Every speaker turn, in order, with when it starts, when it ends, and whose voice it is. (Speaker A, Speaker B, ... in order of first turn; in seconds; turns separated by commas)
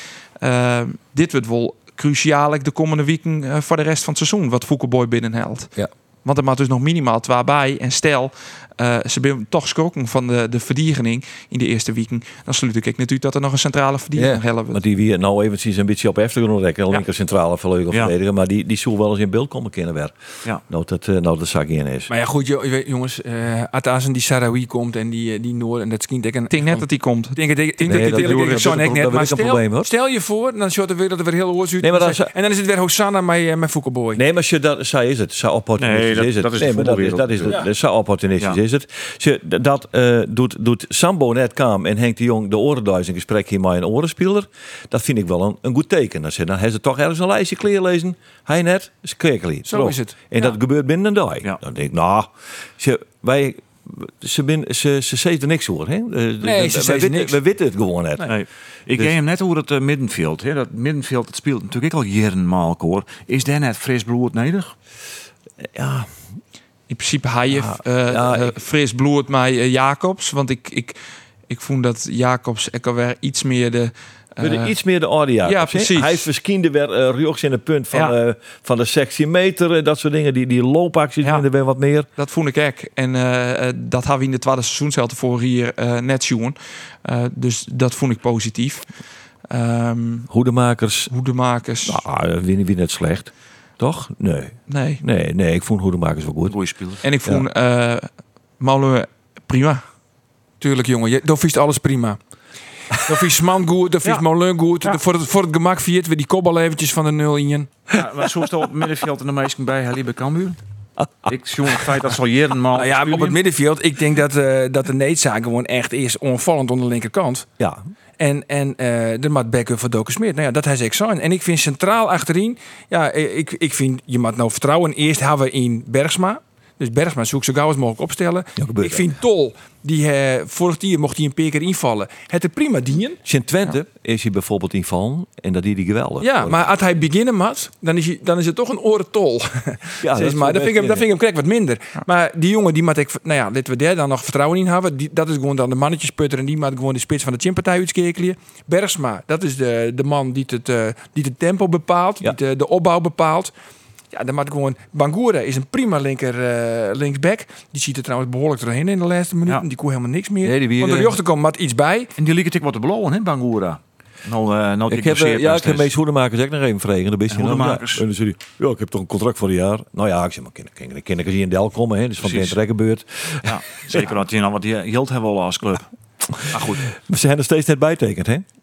Speaker A: 0.4-14.8, Speaker B: 14.2-22.1, Speaker C: 22.1-34.2, Speaker A: 26.5-28.8, Speaker B: 27.9-29.9, Speaker B: 31.8-32.3, Speaker B: 34.1-58.4, Speaker D: 35.8-37.6, Speaker C: 49.7-50.2, Speaker C: 56.4-57.4, Speaker D: 58.3-64.8, Speaker B: 65.6-66.2, Speaker A: 66.9-71.0, Speaker B: 67.5-68.6, Speaker A: 71.5-74.7, Speaker B: 74.4-82.1, Speaker A: 75.4-76.3, Speaker A: 82.2-88.9, Speaker A: 89.5-90.3, Speaker B: 90.3-91.1, Speaker A: 91.1-92.0, Speaker B: 91.9-96.6, Speaker A: 94.7-95.0, Speaker D: 96.5-97.0, Speaker A: 97.0-98.1, Speaker A: 98.6-99.8, Speaker C: 100.6-102.2, Speaker C: 103.0-107.8, Speaker D: 107.9-110.6, Speaker B: 111.0-111.9, Speaker D: 111.3-113.4, Speaker C: 112.8-117.5, Speaker C: 118.2-133.2, Speaker B: 128.6-129.1, Speaker B: 133.2-136.6, Speaker C: 136.2-153.5, Speaker B: 140.0-141.1, Speaker C: 154.1-162.1, Speaker B: 160.4-161.2, Speaker D: 162.2-165.9, Speaker B: 164.9-174.1, Speaker D: 167.3-168.1, Speaker D: 172.2-172.6, Speaker D: 173.4-175.9, Speaker B: 176.3-178.4